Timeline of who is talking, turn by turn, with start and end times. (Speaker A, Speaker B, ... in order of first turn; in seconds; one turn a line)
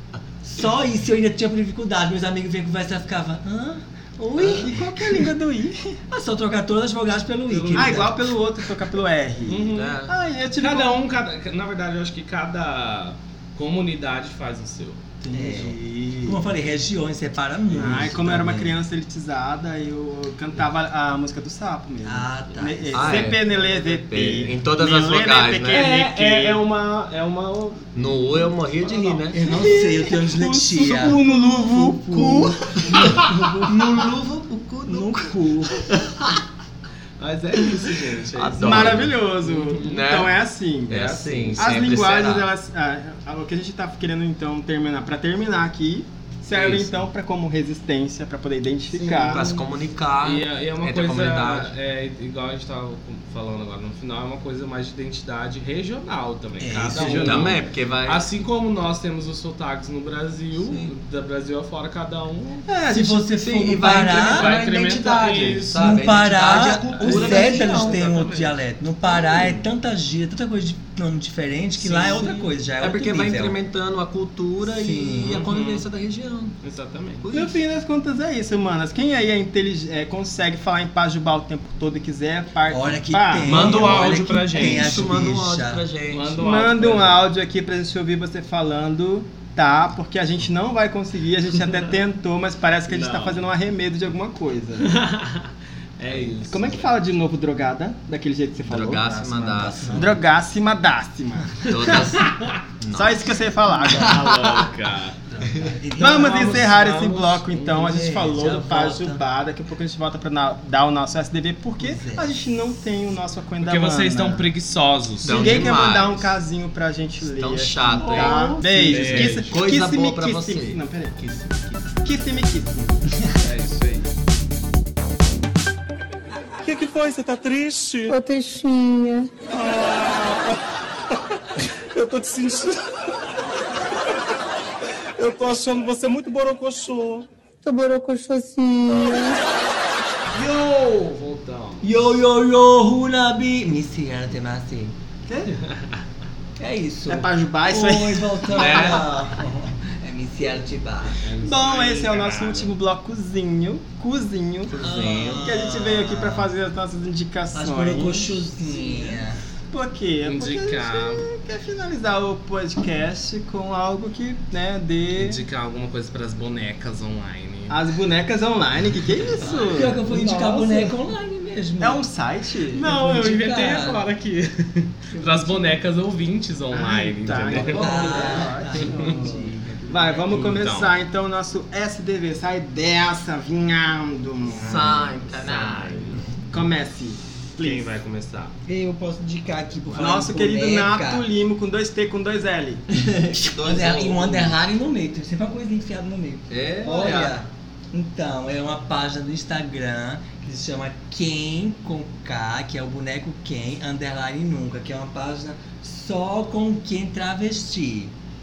Speaker A: 0.4-4.7
Speaker B: 4.4-6.0
Speaker A: 6.1-8.2
Speaker C: 7.5-8.1
Speaker B: 7.7-11.0
Speaker C: 9.5-10.0
Speaker D: 9.7-10.1
Speaker C: 10.6-15.0
Speaker B: 15.2-16.5
Speaker A: 15.3-18.8
Speaker B: 17.8-26.6
Speaker A: 22.0-23.3
Speaker D: 22.9-25.9
Speaker C: 25.7-29.3
Speaker D: 27.9-29.4
Speaker A: 29.3-33.3
Speaker B: 29.4-33.8
Speaker D: 32.1-36.3
Speaker B: 34.9-35.7
Speaker A: 34.9-35.7
Speaker C: 37.2-40.0
Speaker D: 38.3-40.3
Speaker B: 38.6-49.5
Speaker D: 40.9-42.5
Speaker C: 40.9-41.8
Speaker C: 46.5-46.9
Speaker C: 48.9-49.6
Speaker D: 49.3-51.7
Speaker C: 50.2-62.7
Speaker A: 56.6-57.5
Speaker D: 57.0-58.2
Speaker D: 60.7-60.9
Speaker B: 62.7-64.0
Speaker A: 62.9-64.5
Speaker D: 62.9-68.0
Speaker C: 63.9-66.1
Speaker B: 64.9-65.7
Speaker A: 65.7-73.6
Speaker C: 66.8-68.6
Speaker B: 69.1-69.6
Speaker D: 71.8-76.5
Speaker A: 74.6-75.4
Speaker C: 75.3-75.9
Speaker C: 76.6-77.2
Speaker D: 77.2-77.5
Speaker B: 77.3-83.9
Speaker A: 82.7-85.8
Speaker C: 83.4-85.1
Speaker D: 83.6-86.5
Speaker C: 86.1-87.2
Speaker B: 86.4-95.0
Speaker C: 92.9-93.5
Speaker C: 94.8-96.9
Speaker D: 96.1-96.3
Speaker B: 96.5-99.2
Speaker D: 98.7-100.2
Speaker C: 99.0-99.8
Speaker A: 99.6-100.2
Speaker B: 99.9-102.2
Speaker D: 101.7-103.2
Speaker C: 102.2-102.5
Speaker B: 102.9-104.4
Speaker C: 103.9-105.2
Speaker A: 105.3-106.7
Speaker C: 106.0-108.0
Speaker B: 106.0-114.5
Speaker A: 107.7-109.2
Speaker A: 111.8-112.3
Speaker C: 113.6-115.9
Speaker B: 115.2-121.2
Speaker D: 115.2-116.3
Speaker D: 117.2-121.9
Speaker C: 118.0-118.3
Speaker A: 118.2-119.0
Speaker C: 118.9-119.5
Speaker B: 122.0-123.0
Speaker C: 123.4-124.1
Speaker E: 126.6-130.6
Speaker E: 131.9-132.8
Speaker E: 135.2-139.4
Speaker C: 140.3-142.2
Speaker A: 141.8-145.0
Speaker B: 145.3-145.6
Speaker C: 145.6-146.0
Speaker A: 146.6-151.2
Speaker B: 147.1-149.0
Speaker C: 148.5-149.1
Speaker C: 151.2-152.7
Speaker B: 151.4-154.8
Speaker D: 154.7-155.4
Speaker A: 154.8-156.5
Speaker B: 155.4-165.4
Speaker A: 157.5-159.4
Speaker C: 160.2-161.2
Speaker C: 165.1-167.8
Speaker B: 167.7-170.0
Speaker C: 169.2-171.0
Speaker A: 169.5-172.0
Speaker B: 171.8-172.9
Speaker C: 172.8-179.2
Speaker A: 172.8-174.1
Speaker A: 175.1-175.8
Speaker B: 176.7-185.0
Speaker A: 177.7-180.3
Speaker C: 180.3-180.9
Speaker D: 184.5-186.4
Speaker C: 184.5-186.2
Speaker B: 186.5-187.9
Speaker C: 187.6-188.5
Speaker A: 188.7-191.3
Speaker B: 189.9-192.8
Speaker A: 192.9-208.1
Speaker D: 193.4-194.6
Speaker D: 196.5-197.4